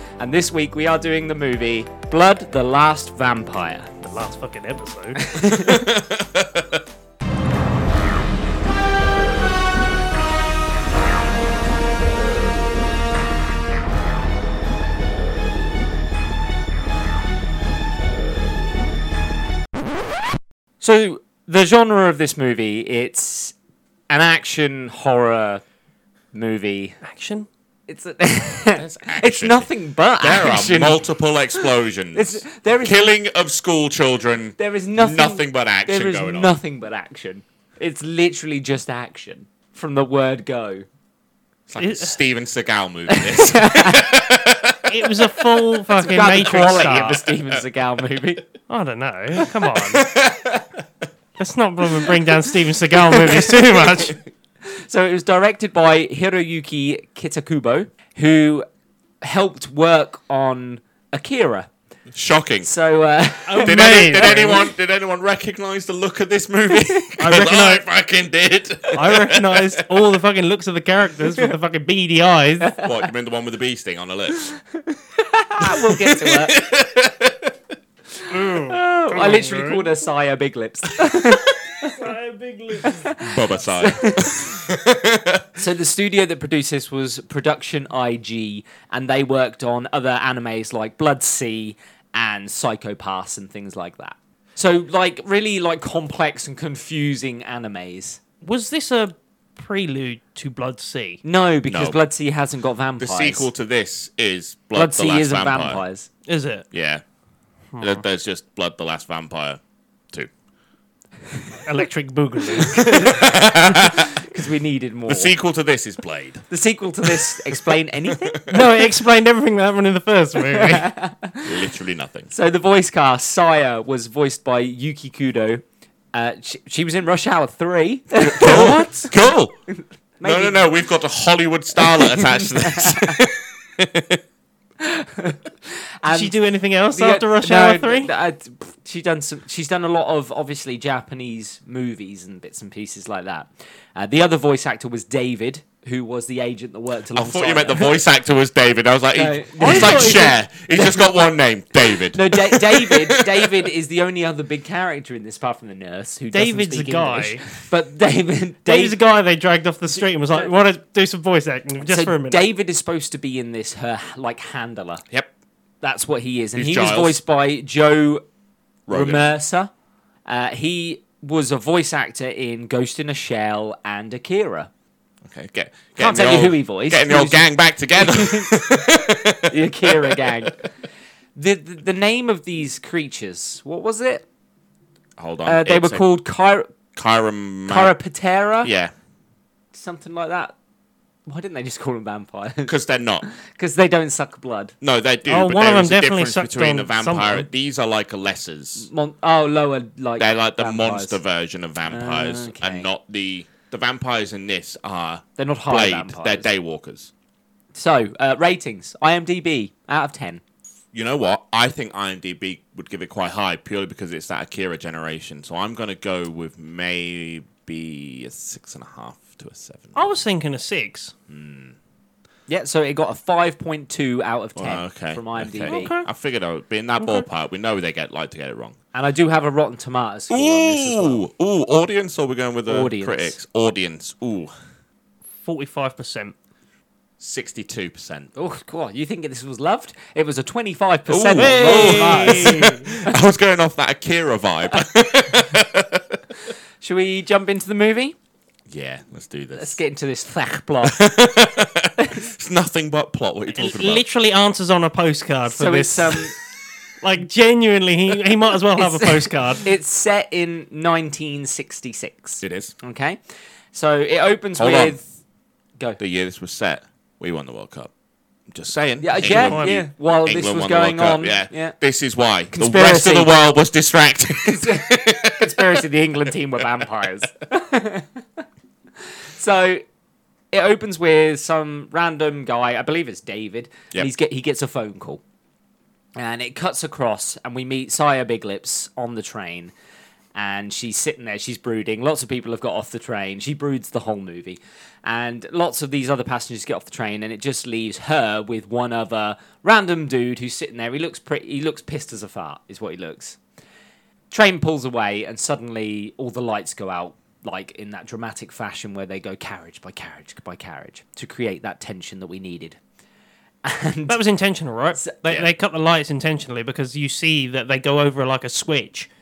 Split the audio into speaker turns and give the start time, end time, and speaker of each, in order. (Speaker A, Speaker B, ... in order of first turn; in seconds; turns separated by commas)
Speaker A: 0.2-3.9, Speaker B: 4.0-5.2, Speaker A: 5.2-5.9, Speaker C: 5.4-6.8, Speaker A: 20.8-23.6, Speaker A: 24.1-25.6, Speaker A: 26.3-27.0, Speaker B: 27.0-27.5, Speaker A: 27.9-33.1, Speaker C: 28.8-36.6, Speaker A: 34.6-40.9, Speaker C: 41.7-45.0, Speaker B: 41.8-42.2, Speaker A: 43.1-44.1, Speaker B: 44.9-47.3, Speaker A: 46.0-48.5, Speaker B: 48.7-50.1, Speaker C: 49.6-50.7, Speaker B: 51.4-54.2, Speaker A: 54.6-58.7, Speaker A: 59.2-61.7, Speaker C: 62.1-62.7, Speaker A: 62.6-64.6, Speaker B: 63.5-64.7, Speaker C: 63.6-69.8, Speaker B: 67.2-67.8, Speaker B: 68.9-72.7, Speaker A: 72.6-73.1, Speaker C: 72.8-74.4, Speaker A: 74.4-76.6, Speaker C: 75.6-77.5, Speaker B: 78.3-79.9, Speaker A: 78.3-82.1, Speaker B: 81.8-83.1, Speaker A: 82.8-84.6, Speaker C: 83.2-85.5, Speaker A: 85.6-98.2, Speaker B: 98.4-101.2, Speaker A: 101.2-103.5, Speaker C: 101.7-102.0, Speaker C: 103.0-105.8, Speaker A: 104.7-106.1, Speaker B: 106.3-106.7, Speaker C: 106.7-107.0, Speaker B: 107.7-108.0, Speaker C: 107.8-109.6, Speaker B: 111.7-113.2, Speaker C: 112.6-114.2, Speaker A: 112.9-115.3, Speaker C: 115.1-116.4, Speaker A: 116.5-118.4, Speaker C: 117.0-118.8, Speaker B: 118.5-120.9, Speaker A: 120.5-121.5, Speaker C: 121.5-122.3, Speaker A: 122.3-125.6, Speaker A: 126.1-129.2, Speaker C: 128.2-129.6, Speaker B: 128.4-128.9, Speaker A: 129.7-130.7, Speaker C: 130.2-134.2, Speaker A: 131.8-133.2, Speaker A: 134.8-136.3, Speaker B: 136.1-138.1, Speaker A: 136.9-148.0, Speaker C: 147.1-153.5, Speaker A: 149.1-151.3, Speaker B: 149.6-150.4, Speaker A: 151.9-158.9, Speaker B: 156.3-157.4, Speaker B: 158.7-162.4, Speaker A: 161.8-165.0, Speaker A: 165.8-168.2, Speaker C: 166.6-167.2, Speaker C: 168.9-169.2, Speaker A: 168.9-169.7, Speaker A: 170.3-174.7, Speaker C: 175.2-180.5, Speaker A: 176.0-178.6, Speaker A: 179.5-180.6, Speaker A: 181.4-184.2, Speaker C: 185.2-186.0, Speaker A: 185.5-186.7, Speaker C: 186.9-187.9, Speaker A: 187.7-188.7, Speaker C: 188.6-188.9, Speaker A: 189.7-190.5, Speaker A: 191.3-194.8, Speaker C: 192.7-193.2, Speaker C: 194.8-198.9, Speaker B: 195.3-197.5, Speaker A: 198.8-201.2, Speaker C: 200.2-207.1, Speaker A: 201.9-202.9, Speaker A: 205.4-206.5, Speaker A: 207.8-210.4, Speaker C: 210.9-220.0, Speaker B: 219.9-221.1, Speaker C: 221.3-221.8, Speaker A: 222.5-225.9, Speaker C: 224.6-228.8, Speaker B: 225.7-226.1, Speaker B: 227.0-227.2, Speaker A: 228.9-231.2, Speaker C: 230.3-234.5, Speaker A: 232.7-233.4, Speaker B: 235.4-236.3, Speaker C: 237.2-238.3, Speaker A: 238.4-243.1, Speaker C: 241.1-246.2, Speaker B: 241.4-242.8, Speaker A: 246.8-248.2, Speaker C: 248.7-249.8, Speaker A: 249.6-251.0, Speaker C: 250.8-254.0, Speaker B: 253.6-256.2, Speaker A: 255.5-256.4, Speaker B: 257.0-259.7, Speaker A: 258.8-263.2, Speaker C: 262.4-262.7, Speaker A: 263.7-265.1, Speaker C: 264.6-265.0, Speaker C: 266.0-267.9, Speaker C: 268.5-275.8, Speaker A: 269.0-271.8, Speaker B: 269.2-269.8, Speaker A: 272.5-273.4, Speaker A: 274.5-278.4, Speaker A: 279.1-279.8, Speaker A: 280.5-285.2, Speaker A: 286.2-289.7, Speaker A: 290.4-303.4, Speaker A: 304.3-312.8, Speaker A: 313.6-314.2, Speaker B: 314.1-319.1